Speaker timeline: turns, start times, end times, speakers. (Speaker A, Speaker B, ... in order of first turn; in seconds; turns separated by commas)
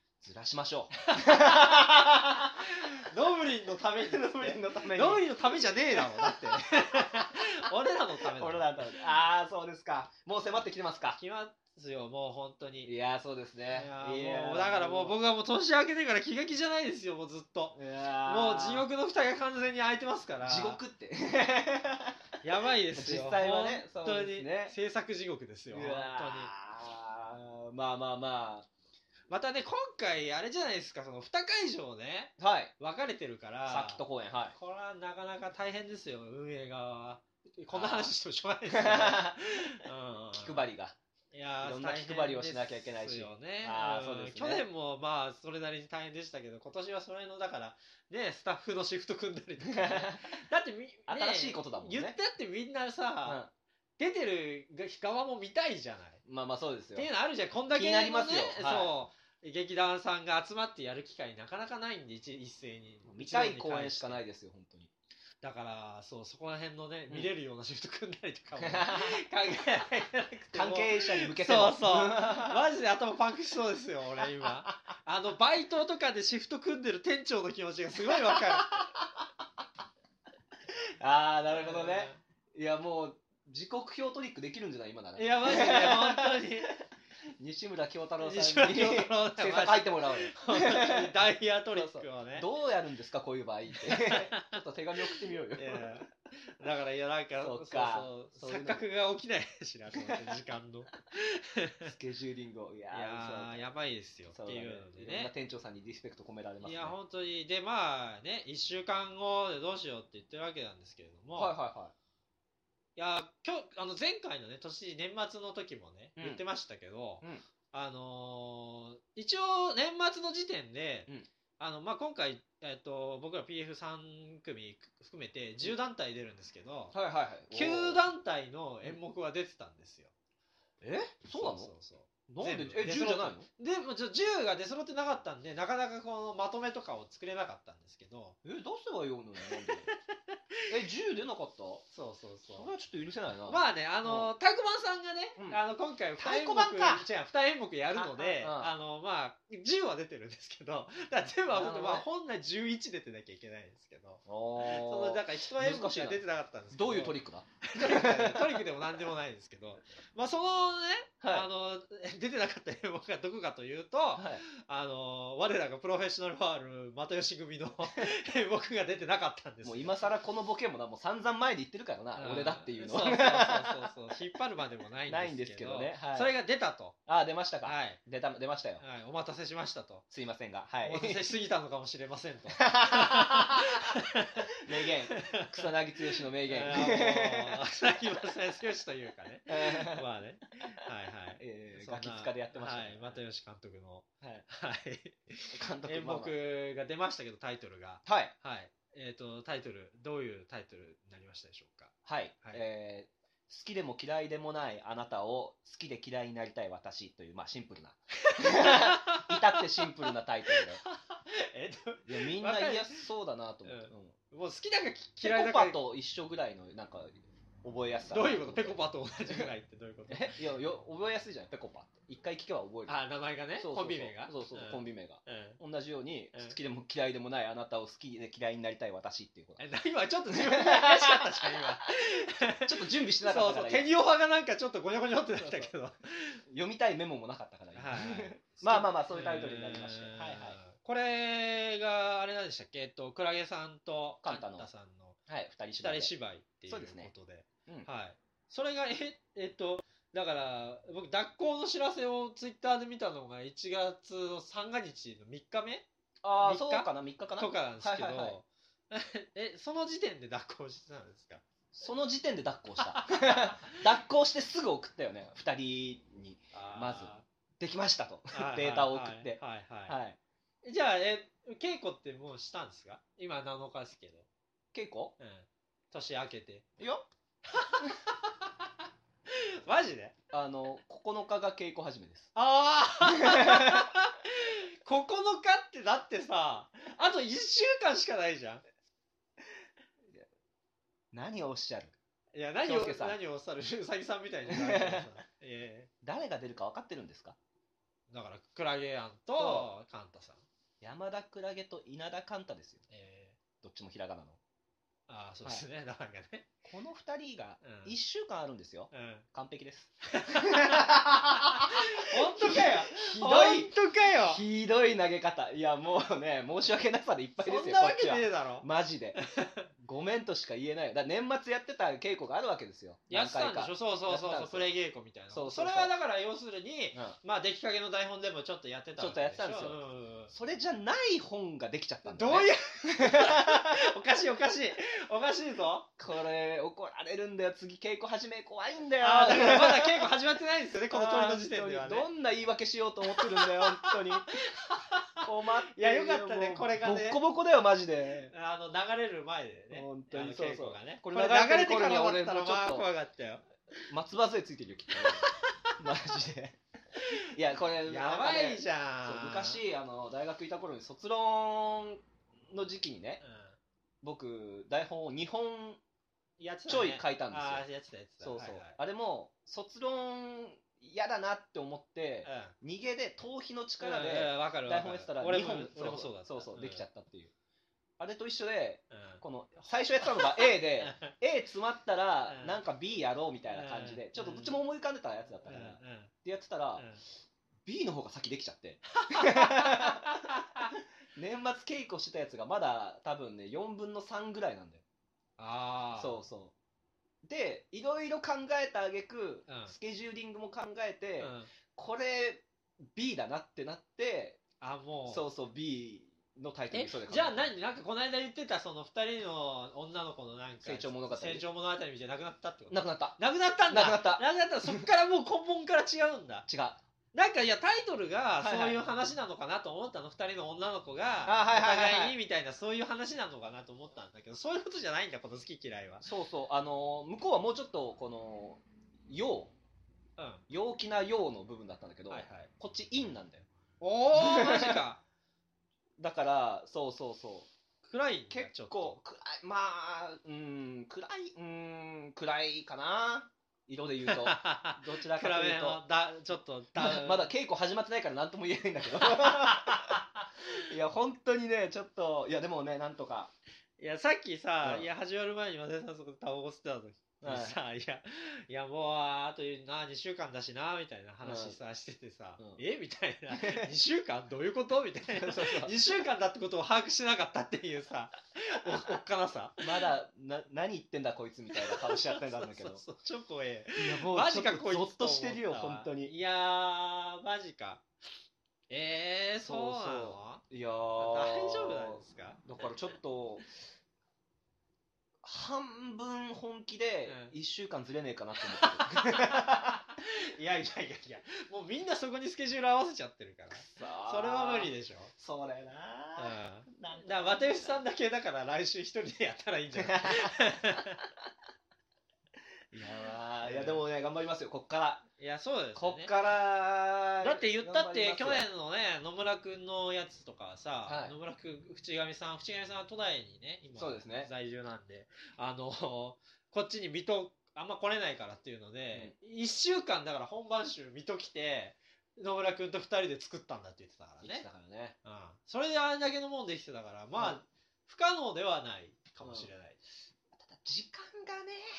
Speaker A: 0.2-3.1, Speaker B: 1.0-8.9, Speaker A: 4.0-7.5, Speaker A: 8.2-11.2, Speaker B: 11.2-12.9, Speaker A: 12.8-15.2, Speaker B: 13.7-20.8, Speaker A: 17.8-18.9, Speaker A: 20.4-22.2, Speaker B: 22.4-26.5, Speaker A: 22.9-24.8, Speaker A: 25.7-28.7, Speaker B: 29.3-34.0, Speaker A: 32.4-32.7, Speaker A: 33.7-34.5, Speaker B: 34.5-40.7, Speaker A: 37.7-38.1, Speaker A: 38.7-39.7, Speaker A: 40.3-41.0, Speaker B: 41.3-53.4, Speaker A: 41.6-44.6, Speaker A: 49.7-50.3, Speaker A: 51.1-52.2, Speaker A: 53.2-53.5, Speaker B: 54.0-56.2, Speaker A: 56.2-57.1, Speaker B: 56.9-64.2, Speaker A: 57.7-58.9, Speaker A: 63.0-64.9, Speaker B: 65.4-78.8, Speaker A: 68.6-69.2, Speaker A: 70.5-72.6, Speaker A: 78.1-79.3, Speaker A: 80.7-86.8, Speaker B: 81.5-82.2, Speaker B: 85.2-86.7, Speaker A: 87.4-91.2, Speaker B: 88.2-92.5, Speaker A: 91.7-96.0, Speaker B: 93.7-94.6, Speaker B: 95.6-101.9, Speaker A: 97.4-98.8, Speaker A: 99.9-100.4, Speaker A: 101.8-103.7, Speaker B: 102.9-105.3, Speaker A: 104.3-107.0, Speaker B: 106.6-111.5, Speaker A: 111.4-111.9, Speaker B: 113.0-126.9, Speaker A: 116.2-116.4, Speaker A: 126.9-128.0, Speaker B: 127.5-130.1, Speaker A: 130.8-131.7, Speaker B: 131.3-138.4, Speaker A: 132.3-133.5, Speaker A: 138.4-139.9, Speaker B: 139.7-140.7, Speaker A: 140.7-141.8, Speaker B: 141.9-142.7, Speaker A: 142.5-144.3, Speaker B: 143.5-169.9, Speaker A: 146.2-147.1, Speaker A: 147.9-148.7, Speaker A: 151.5-152.1, Speaker A: 154.2-158.7, Speaker A: 161.2-161.5, Speaker A: 164.1-164.4, Speaker A: 169.6-173.9, Speaker B: 172.2-176.9, Speaker A: 175.1-176.3, Speaker A: 177.1-178.8, Speaker B: 177.6-178.0, Speaker B: 178.8-180.1, Speaker A: 180.1-181.2, Speaker B: 180.8-202.6, Speaker A: 182.6-183.8, Speaker A: 184.6-187.6, Speaker A: 189.5-190.1, Speaker A: 191.4-193.2, Speaker A: 195.5-196.3, Speaker A: 198.1-198.3, Speaker A: 202.1-210.8, Speaker B: 208.2-213.1, Speaker A: 212.1-214.2, Speaker B: 213.6-215.8, Speaker A: 215.2-219.5, Speaker B: 218.1-220.4, Speaker A: 220.1-223.0, Speaker B: 222.9-225.6, Speaker A: 223.6-229.6, Speaker B: 229.6-236.4, Speaker A: 230.3-231.8, Speaker A: 232.7-233.9, Speaker A: 235.4-235.7, Speaker A: 236.5-240.6, Speaker B: 237.8-245.2, Speaker A: 244.2-244.7, Speaker A: 245.3-246.1, Speaker B: 245.8-255.9, Speaker A: 246.7-247.1, Speaker A: 256.2-258.4, Speaker B: 256.4-261.4, Speaker A: 261.7-270.2, Speaker B: 262.8-263.8, Speaker B: 266.5-267.2, Speaker B: 268.3-270.0, Speaker B: 270.6-274.3, Speaker A: 274.7-275.1, Speaker B: 275.2-276.7, Speaker A: 276.8-277.1, Speaker B: 277.5-278.7, Speaker B: 279.3-280.1, Speaker A: 280.3-282.3, Speaker B: 282.3-288.6, Speaker A: 283.0-283.9, Speaker A: 291.1-291.9, Speaker B: 292.3-295.9, Speaker A: 292.6-293.2, Speaker A: 294.5-295.1, Speaker A: 296.0-297.4, Speaker B: 298.1-300.4, Speaker A: 299.3-299.7, Speaker A: 300.8-302.8, Speaker B: 302.9-303.4, Speaker A: 303.6-304.4, Speaker B: 305.1-306.5, Speaker A: 306.6-319.2, Speaker B: 307.6-307.9, Speaker B: 308.9-309.2, Speaker B: 310.1-314.4, Speaker B: 317.4-318.7, Speaker B: 319.2-319.7, Speaker A: 319.8-324.7, Speaker B: 323.1-330.3, Speaker A: 325.3-325.9, Speaker A: 329.0-329.8, Speaker A: 330.3-333.9, Speaker B: 332.1-335.9, Speaker A: 336.0-340.1, Speaker B: 339.0-342.1, Speaker A: 340.9-344.3, Speaker B: 343.1-347.2, Speaker A: 345.2-348.3, Speaker B: 348.3-353.4, Speaker A: 349.7-352.9, Speaker A: 353.9-356.6, Speaker B: 354.9-355.8, Speaker B: 357.0-357.3, Speaker A: 357.2-363.2, Speaker B: 357.9-359.6, Speaker B: 363.2-363.6, Speaker A: 364.0-365.8, Speaker B: 366.4-368.8, Speaker A: 366.7-367.6, Speaker A: 368.2-377.3, Speaker B: 372.2-372.5, Speaker B: 373.8-376.9, Speaker A: 378.0-386.9, Speaker B: 378.9-379.2, Speaker B: 380.0-381.1, Speaker B: 382.3-382.6, Speaker B: 383.5-384.6, Speaker B: 385.5-386.1, Speaker B: 386.8-387.0, Speaker A: 387.6-394.8, Speaker B: 389.0-390.8, Speaker B: 395.4-396.2, Speaker A: 396.0-396.5, Speaker A: 397.2-404.4, Speaker B: 399.5-399.7, Speaker B: 401.2-401.5, Speaker B: 404.6-405.2, Speaker A: 405.1-407.5, Speaker B: 406.7-416.5, Speaker A: 410.6-411.4, Speaker A: 412.7-414.9, Speaker A: 416.5-416.8, Speaker B: 417.1-426.1, Speaker A: 418.4-418.8, Speaker A: 421.2-422.1, Speaker A: 426.0-429.5, Speaker B: 430.2-430.4, Speaker A: 430.5-433.5, Speaker B: 432.1-432.5, Speaker B: 433.8-435.0, Speaker A: 434.1-434.8, Speaker A: 436.0-437.5, Speaker B: 437.8-439.0, Speaker A: 438.3-445.8, Speaker B: 444.1-447.3, Speaker A: 446.8-450.0, Speaker B: 449.0-450.2, Speaker A: 450.5-453.3, Speaker B: 453.8-469.9, Speaker A: 454.6-454.9, Speaker A: 457.2-457.6, Speaker A: 461.2-461.6, Speaker A: 463.3-463.7, Speaker A: 465.1-465.8, Speaker A: 469.6-472.8, Speaker B: 471.5-477.8, Speaker A: 473.8-476.1, Speaker B: 478.7-480.4, Speaker A: 479.4-483.5, Speaker B: 481.0-482.7, Speaker A: 485.2-489.8, Speaker B: 487.1-487.3, Speaker B: 488.5-495.1, Speaker A: 493.5-497.7, Speaker B: 496.2-501.0, Speaker A: 499.8-500.3, Speaker A: 502.7-505.0, Speaker B: 503.4-503.8, Speaker B: 505.2-506.1, Speaker A: 505.8-508.5, Speaker B: 507.2-524.5, Speaker A: 510.9-511.1, Speaker A: 513.8-514.3, Speaker A: 524.2-525.0, Speaker B: 525.0-529.8, Speaker A: 527.1-527.4, Speaker A: 529.2-529.5, Speaker A: 530.3-531.7